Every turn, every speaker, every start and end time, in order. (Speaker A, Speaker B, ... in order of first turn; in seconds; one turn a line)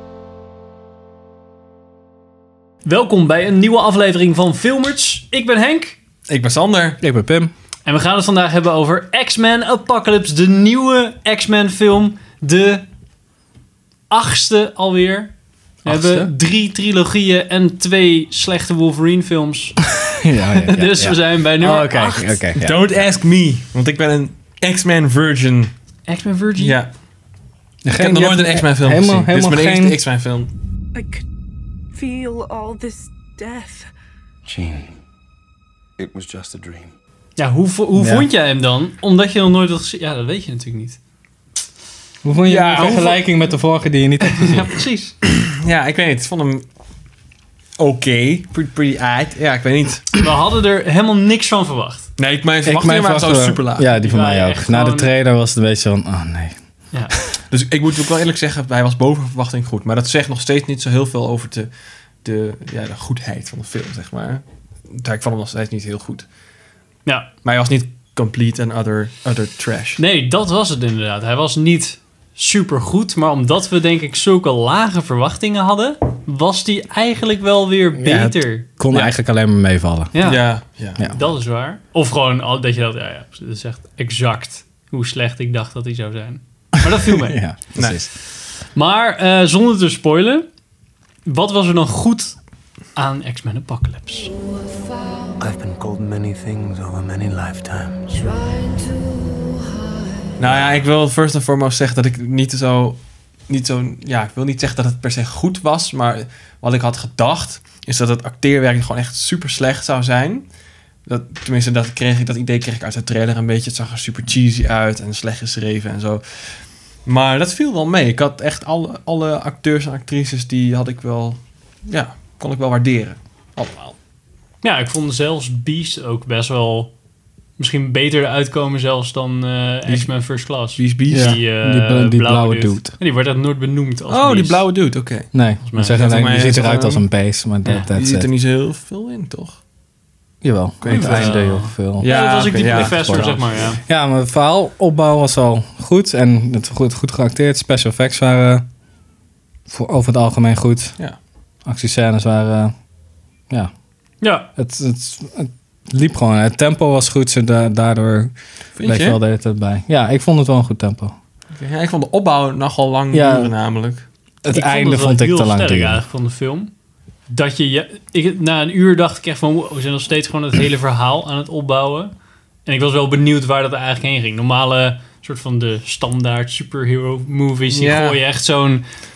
Speaker A: 2.9-6.0
Speaker B: 6.3-7.0
Speaker C: 7.0-7.5
Speaker A: 7.9-12.9
Speaker A: 14.1-15.3
Speaker C: 15.8-16.3
Speaker A: 15.8-19.8
Speaker C: 20.1-22.9
Speaker A: 20.6-22.5
Speaker B: 22.6-25.7
Speaker A: 26.1-26.8
Speaker B: 26.6-26.9
Speaker C: 27.9-30.0
Speaker B: 27.9-30.5
Speaker D: 30.9-31.2
Speaker D: 31.9-33.9
Speaker E: 34.5-35.0
Speaker E: 36.0-36.9
Speaker A: 37.4-41.0
Speaker C: 38.0-38.3
Speaker C: 42.2-44.7
Speaker B: 42.5-43.2
Speaker A: 42.8-43.1
Speaker A: 44.3-45.1
Speaker B: 45.3-46.6
Speaker B: 47.8-50.2
Speaker A: 50.2-52.1
Speaker B: 52.2-53.9
Speaker C: 52.6-56.6
Speaker A: 53.9-55.1
Speaker B: 57.5-61.7
Speaker B: 62.2-66.3
Speaker B: 67.4-70.0
Speaker A: 70.0-78.7
Speaker C: 78.0-80.1
Speaker A: 80.1-87.4
Speaker B: 80.2-81.1
Speaker C: 86.9-88.1
Speaker B: 87.8-88.0
Speaker A: 88.4-90.5
Speaker A: 91.3-92.4
Speaker A: 93.0-94.3
Speaker D: 94.3-95.4
Speaker E: 95.4-98.3
Speaker D: 98.1-100.0
Speaker B: 100.4-110.5
Speaker B: 111.1-116.2
Speaker B: 117.1-124.0
Speaker A: 124.6-126.9
Speaker A: 127.6-134.6
Speaker B: 129.9-131.4
Speaker C: 131.1-132.9
Speaker B: 134.1-137.1
Speaker C: 135.3-138.3
Speaker A: 135.7-136.0
Speaker B: 137.9-139.6
Speaker C: 140.4-148.7
Speaker B: 140.8-143.4
Speaker A: 140.9-143.8
Speaker C: 149.7-151.0
Speaker C: 151.7-152.7
Speaker A: 154.2-154.5
Speaker C: 154.6-158.3
Speaker B: 158.8-159.2
Speaker C: 158.8-161.2
Speaker B: 161.6-164.1
Speaker C: 163.1-163.5
Speaker C: 164.4-166.0
Speaker A: 164.5-166.7
Speaker A: 167.3-172.1
Speaker A: 172.7-178.8
Speaker B: 177.7-178.2